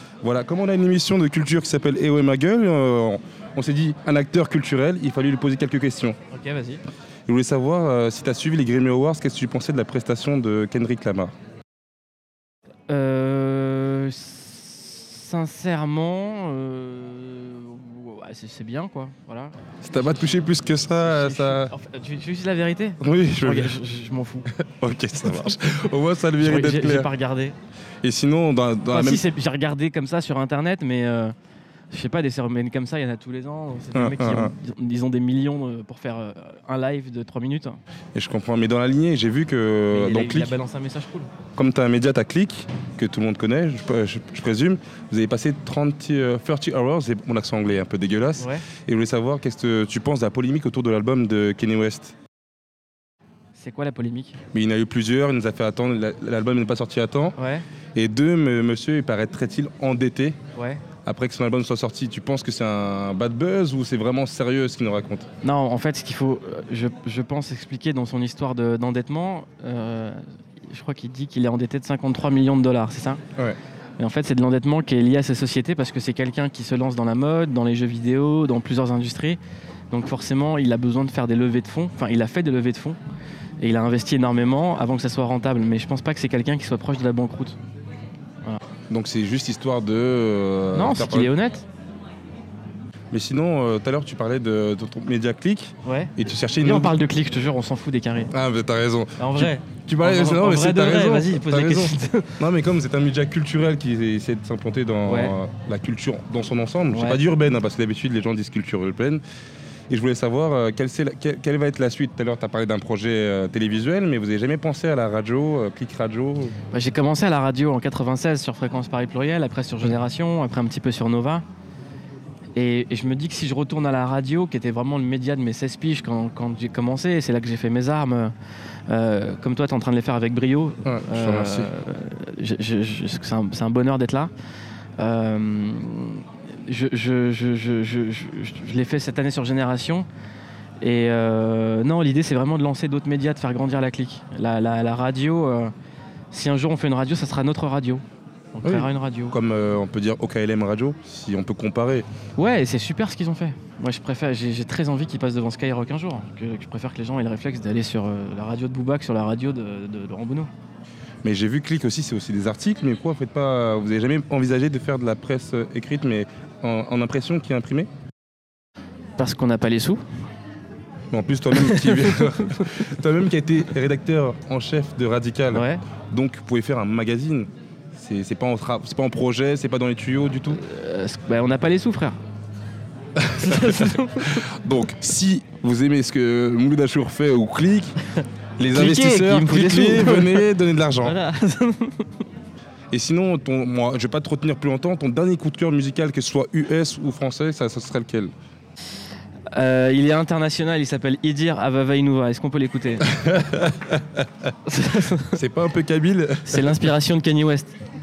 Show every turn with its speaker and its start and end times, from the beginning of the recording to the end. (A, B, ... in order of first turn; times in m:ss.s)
0:00.2-0:06.2 A
0:06.3-0:06.8 B
0:07.3-0:11.3 A
0:12.9-0:20.5 B
0:19.8-0:21.7 A
0:21.0-0:24.5 B
0:23.0-0:23.7 A
0:24.5-0:27.1 A
0:26.4-0:27.6 B
0:28.0-0:29.2 A
0:28.9-0:31.3 B
0:31.9-0:37.8 B
0:33.9-0:34.5 A
0:38.1-0:40.5 A
0:39.9-0:41.3 B
0:41.6-0:52.1 A
0:48.4-0:48.6 B
0:53.6-0:54.4 B
0:54.5-0:57.4 A
0:57.4-0:57.6 B
0:58.0-1:00.4 A
1:00.6-1:00.8 B
1:01.0-1:05.3 A
1:05.4-1:13.2 B
1:14.0-1:19.4 B
1:19.9-1:23.0 B
1:23.6-1:27.6 B
1:28.9-1:31.3 A
1:30.7-1:31.6 B
1:33.1-1:37.0 A
1:35.8-1:38.3 B
1:38.3-1:49.2 A
1:39.2-1:42.4 B
1:45.0-1:45.4 B
1:46.9-1:47.2 B
1:49.9-1:56.5 A
1:56.7-2:01.4 B
2:02.6-2:08.3 B
2:08.9-2:14.3 B
2:10.8-2:11.7 A
2:15.0-2:20.1 B
2:20.8-2:25.7 B
2:26.3-2:28.0 B
2:28.5-2:29.3 B
2:28.6-2:32.0 A
2:32.4-2:40.5 B
2:41.2-2:47.9 A
2:49.2-2:50.0 B
2:51.1-3:00.6 A
2:51.5-2:52.8 B
2:55.5-2:55.8 B
3:00.5-3:02.2 B
3:03.2-3:08.0 A
3:03.4-3:04.4 B
3:08.6-3:11.2 A
3:08.7-3:10.5 B
3:11.0-3:12.2 B
3:12.9-3:18.3 A
3:19.5-3:23.1 B
3:23.1-3:24.2 A
3:24.7-3:25.4 B
3:25.3-3:26.7 A
3:26.5-3:27.7 B